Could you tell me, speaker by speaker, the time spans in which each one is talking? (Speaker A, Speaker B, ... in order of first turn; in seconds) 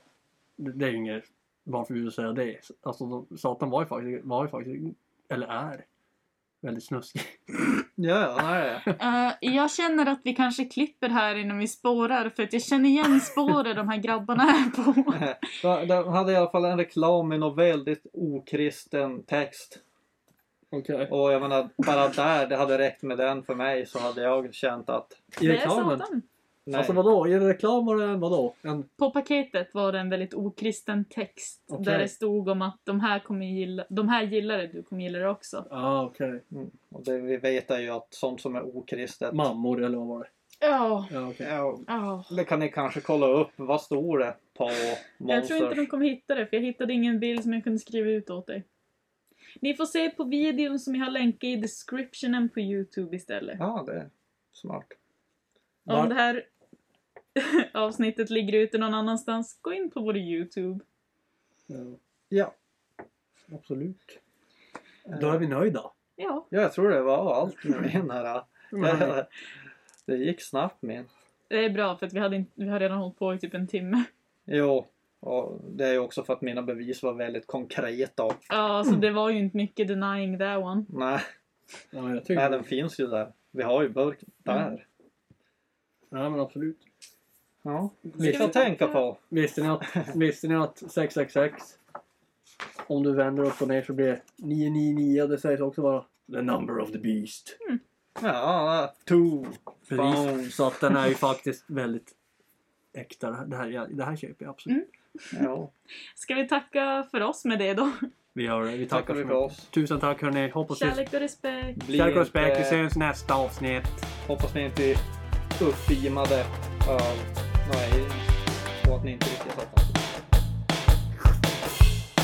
Speaker A: 0.6-5.8, 6.6-7.5, 20.7-21.1, 25.4-26.0, 26.7-28.9, 31.7-32.1, 35.7-36.4, 39.3-40.3, 41.1-41.5, 55.9-56.1, 61.7-62.0, 63.5-64.2, 65.1-65.9, 68.7-69.2, 81.9-82.7, 86.1-86.8, 88.1-88.6, 89.3-91.8, 92.9-97.6, 99.9-102.2, 102.9-104.7, 108.3-111.0, 111.9-114.0
Speaker B: 8.0-8.9, 15.1-19.8, 21.1-25.3, 26.6-27.0, 36.5-39.4, 41.4-45.9, 53.6-55.0, 65.1-65.4, 66.5-69.3, 70.1-71.1, 74.5-78.4, 80.9-81.2, 82.3-84.8, 87.6-89.2, 98.2-101.0, 105.3-105.7, 108.9-109.7, 111.8-112.8, 114.2-115.0, 115.6-120.0
Speaker C: 9.0-15.2, 25.4-26.2, 29.0-35.6, 40.6-41.1, 41.9-42.3, 45.3-48.6, 49.6-53.6, 55.9-56.5, 57.4-60.8, 66.2-66.5, 71.5-74.1, 78.5-80.9, 84.5-84.7, 88.2-89.0, 104.7-105.5, 106.2-108.1, 110.7-111.8